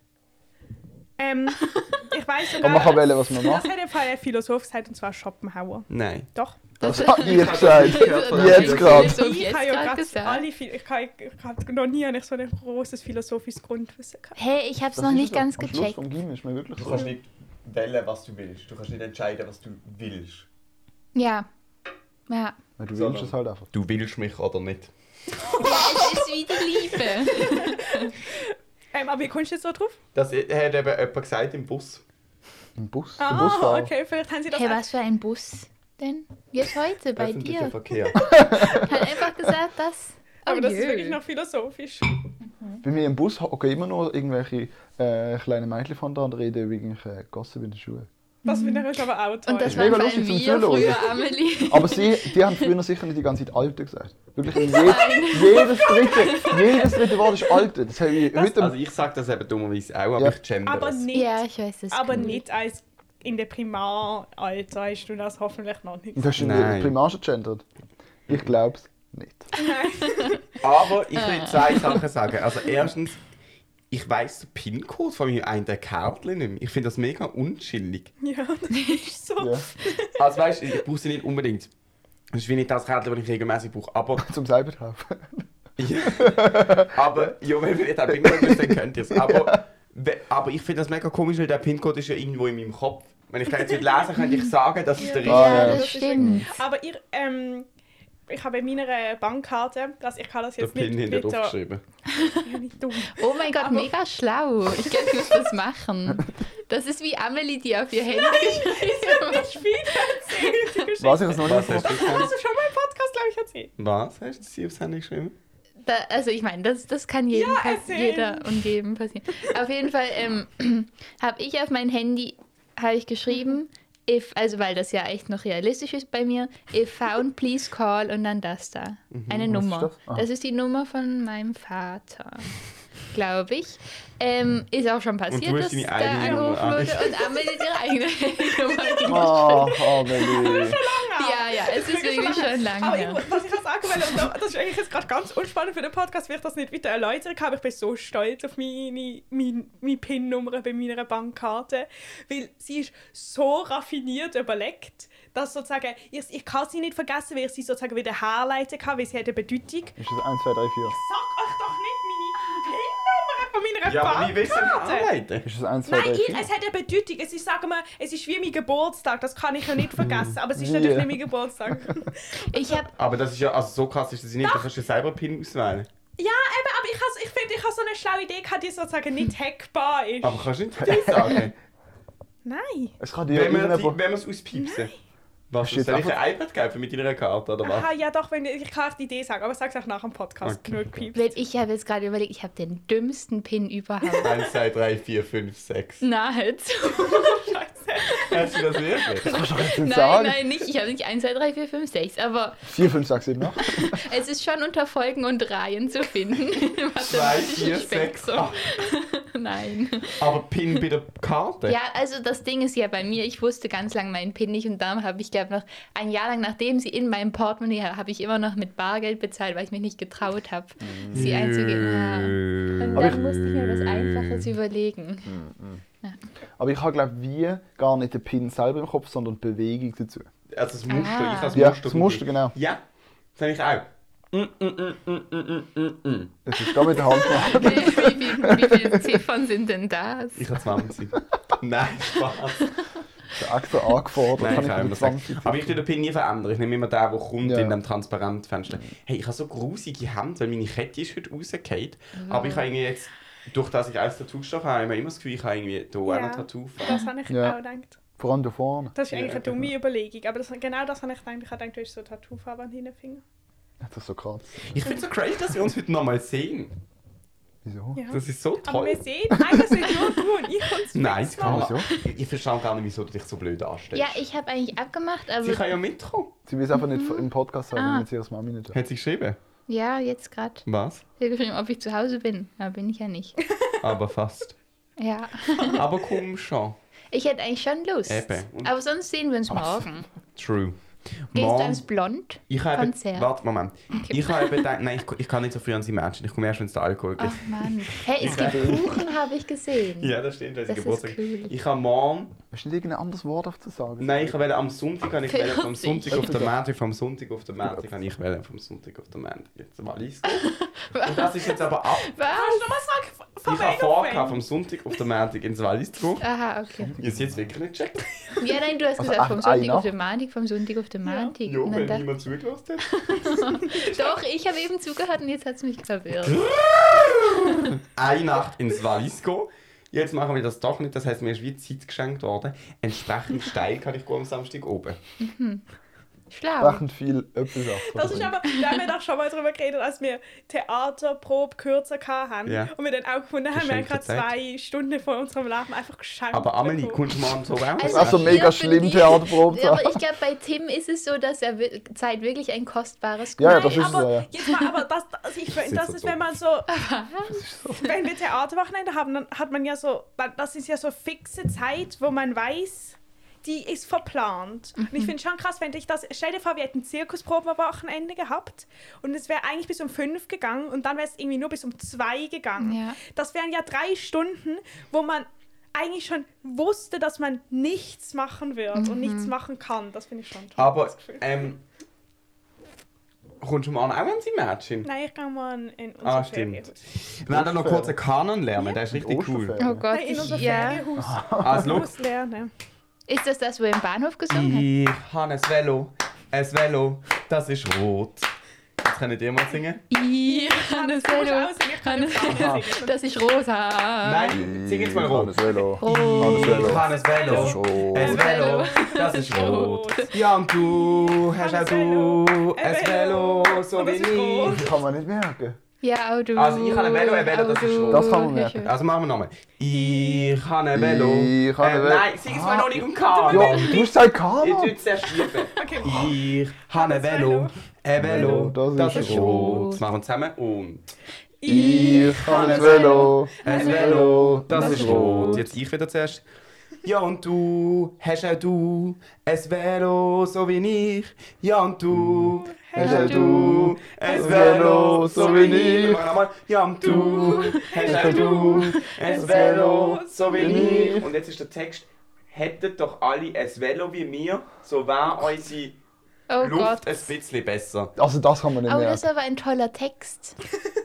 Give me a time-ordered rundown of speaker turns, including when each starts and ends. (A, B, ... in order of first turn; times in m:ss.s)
0:01.2-0:06.6 A
0:02.6-0:03.7 B
0:05.9-0:06.3 C
0:06.8-0:10.4 D
0:06.8-0:09.2 B
0:07.0-0:09.2 C
0:08.8-0:14.4 A
0:14.4-0:16.0 D
0:14.9-0:17.1 B
0:16.8-0:20.5 C
0:21.1-0:21.5 D
0:22.3-0:22.6 D
0:22.8-0:23.7 B
0:22.9-0:24.9 C
0:25.4-0:26.3 A
0:25.6-0:28.1 D
0:26.9-0:30.0 A
0:30.1-0:32.0 C
0:32.8-0:33.9 B
0:33.2-0:34.8 A
0:34.5-0:37.8 D
0:37.2-0:38.2 C
0:38.2-0:39.0 B
0:38.3-0:41.2 D
0:40.5-0:42.2 A
0:42.6-0:42.8 D
0:42.8-0:48.1 B
0:48.4-0:48.9 D
0:48.4-0:49.9 A
0:49.4-0:52.7 D
0:49.6-0:58.8 B
0:49.7-0:49.9 C
0:54.5-0:57.2 D
0:54.7-0:56.6 A
0:58.3-1:01.1 C
1:00.6-1:06.5 A
1:01.1-1:02.4 D
1:06.2-1:07.6 B
1:06.4-1:07.0 C
1:08.3-1:09.5 B
1:09.6-1:10.6 A
1:09.7-1:10.3 D
1:10.6-1:13.2 C
1:11.2-1:12.0 D
1:13.9-1:18.1 C
1:18.2-1:20.4 A
1:19.4-1:19.6 B
1:20.1-1:21.7 C
1:22.3-1:24.3 C
1:24.2-1:25.4 B
1:25.8-1:35.8 C
1:26.1-1:27.3 B
1:28.1-1:29.6 B
1:33.5-1:34.0 A
1:35.0-1:37.7 A
1:35.2-1:36.5 B
1:35.2-1:36.4 D
1:38.3-1:41.6 A
1:40.6-1:41.8 C
1:42.1-1:42.4 D
1:42.4-1:43.9 A
1:43.1-1:50.7 D
1:44.9-1:45.4 A
1:48.1-1:53.7 A
1:51.0-1:52.1 B
1:51.4-1:52.3 C
1:53.8-1:55.4 C
1:55.8-2:12.5 D
1:57.3-1:58.6 A
2:09.1-2:09.5 C
2:09.4-2:10.3 B
2:13.1-2:20.6 D
2:15.3-2:17.2 C
2:16.1-2:16.8 A
2:18.8-2:40.0 A
2:19.1-2:20.8 B
2:21.2-2:23.2 D
2:40.0-2:41.0 B
2:40.9-2:45.1 A
2:43.9-2:45.4 C
2:45.4-2:46.5 B
2:45.9-2:52.8 A
2:50.0-2:50.4 C
2:50.6-2:51.3 B
2:52.4-2:52.9 D
2:53.0-2:55.9 C
2:54.4-2:54.7 A
2:56.2-3:00.5 A
3:00.2-3:01.5 C
3:00.8-3:01.5 B
3:02.4-3:03.0 A
3:03.0-3:04.0 B
3:03.3-3:04.9 C
3:04.5-3:04.9 A
3:05.5-3:07.9 C
3:05.6-3:06.2 B
3:07.6-3:11.3 A
3:10.4-3:10.8 C
3:11.1-3:14.4 D
3:14.2-3:16.0 C
3:16.0-3:17.4 D
3:16.9-3:18.6 A
3:18.3-3:19.3 C
3:19.2-3:20.4 B
3:19.2-3:22.7 D
3:22.7-3:24.0 B
3:23.6-3:30.4 D
3:27.0-3:28.7 C
3:30.2-3:31.8 C
3:31.7-3:45.4 D
3:40.8-3:41.4 B
3:41.1-3:44.5 C
3:42.9-3:43.3 B
3:45.3-3:45.8 B
3:46.6-3:50.3 B
3:50.5-3:52.8 C
3:50.9-3:51.6 D
3:51.5-3:52.6 B
3:53.4-3:56.3 C
3:56.4-3:59.2 B
3:57.1-4:00.4 D
3:57.8-3:58.0 C
4:00.4-4:02.7 C
4:03.4-4:05.8 B
4:04.4-4:17.0 C
4:07.4-4:07.8 B
4:12.2-4:12.7 D
4:16.0-4:18.0 A
4:17.3-4:17.6 B
4:18.2-4:19.7 B
4:19.0-4:23.2 A
4:19.1-4:19.4 C
4:23.8-4:24.5 B
4:24.6-4:26.7 C
4:27.6-4:28.0 B
4:28.0-4:31.7 A
4:28.1-4:29.0 C
4:29.4-4:29.8 B
4:30.9-4:34.2 C
4:31.4-4:31.9 B
4:33.9-4:35.6 D
4:35.4-4:36.3 C
4:36.5-4:38.8 B
4:36.7-4:38.1 D
4:38.7-4:39.4 C
4:39.7-4:40.6 D
4:40.7-4:41.0 C
4:41.2-4:43.4 D
4:43.4-4:43.7 A
4:43.8-4:44.6 C
4:45.0-4:45.8 D
4:45.6-4:46.8 C
4:47.1-4:50.0 D
4:48.1-4:48.7 C
4:50.4-4:51.8 C
4:51.3-4:53.3 D
4:52.5-4:59.1 C
4:53.9-4:54.5 D
4:57.2-5:00.1 D
4:58.2-4:58.9 B
5:00.0-5:02.4 C
5:00.7-5:01.5 D
5:02.5-5:04.4 B
5:04.0-5:12.2 C
5:05.3-5:06.4 D
5:06.1-5:06.6 B
5:10.3-5:12.7 D
5:12.2-5:14.4 A
5:13.4-5:16.2 C
5:16.2-5:17.0 D
5:17.0-5:18.2 C
5:18.4-5:22.1 D
5:19.0-5:19.9 B
5:21.0-5:21.4 A
5:21.4-5:24.1 C
5:22.9-5:26.5 D
5:26.2-5:35.0 C
5:35.2-5:35.6 D
5:36.3-5:36.8 D
5:36.6-5:38.4 B
5:37.8-5:47.1 A
5:42.4-5:42.7 C
5:43.5-5:44.4 C
5:46.3-5:48.4 C
5:47.8-5:54.7 D
5:47.8-5:50.0 B
5:53.4-5:54.3 B
5:53.4-5:56.7 A
5:55.5-5:56.3 C
5:56.7-5:57.4 D
5:57.2-5:58.0 B
5:57.8-6:21.2 A
6:04.8-6:05.1 D
6:12.6-6:13.0 D
6:18.7-6:19.3 D
6:20.6-6:21.6 C
6:23.4-6:24.9 C
6:24.8-6:26.8 A
6:26.0-6:29.6 C
6:27.3-6:28.0 B
6:28.9-6:30.3 B
6:29.6-6:30.9 D
6:29.9-6:32.5 A
6:31.0-6:31.8 B
6:31.4-6:32.0 C
6:33.1-6:34.7 D
6:34.3-6:39.8 C
6:39.9-6:44.4 D
6:40.3-6:43.0 A
6:42.3-6:42.6 B
6:44.0-6:54.7 C
6:44.3-6:48.2 B
6:45.8-6:46.8 D
6:46.6-6:54.7 A
6:48.0-6:50.1 D
6:54.5-6:55.6 B
6:55.8-6:58.7 D
6:56.4-7:10.9 C
6:57.9-6:58.7 B
7:00.7-7:04.8 B
7:03.1-7:03.9 A
7:05.2-7:06.2 A
7:06.7-7:08.5 A
7:08.0-7:09.6 B
7:08.9-7:09.8 D
7:11.4-7:15.4 A
7:11.4-7:15.5 B
7:11.5-7:16.2 C
7:13.4-7:14.0 D
7:14.6-7:15.1 D
7:16.8-7:35.8 C
7:21.9-7:26.1 B
7:22.4-7:23.3 A
7:22.8-7:23.6 D
7:24.0-7:26.0 A
7:26.8-7:31.0 A
7:26.9-7:27.6 D
7:27.8-7:31.1 B
7:36.3-7:37.1 D
7:36.4-7:37.9 C
7:38.0-7:39.0 B
7:38.7-7:40.4 D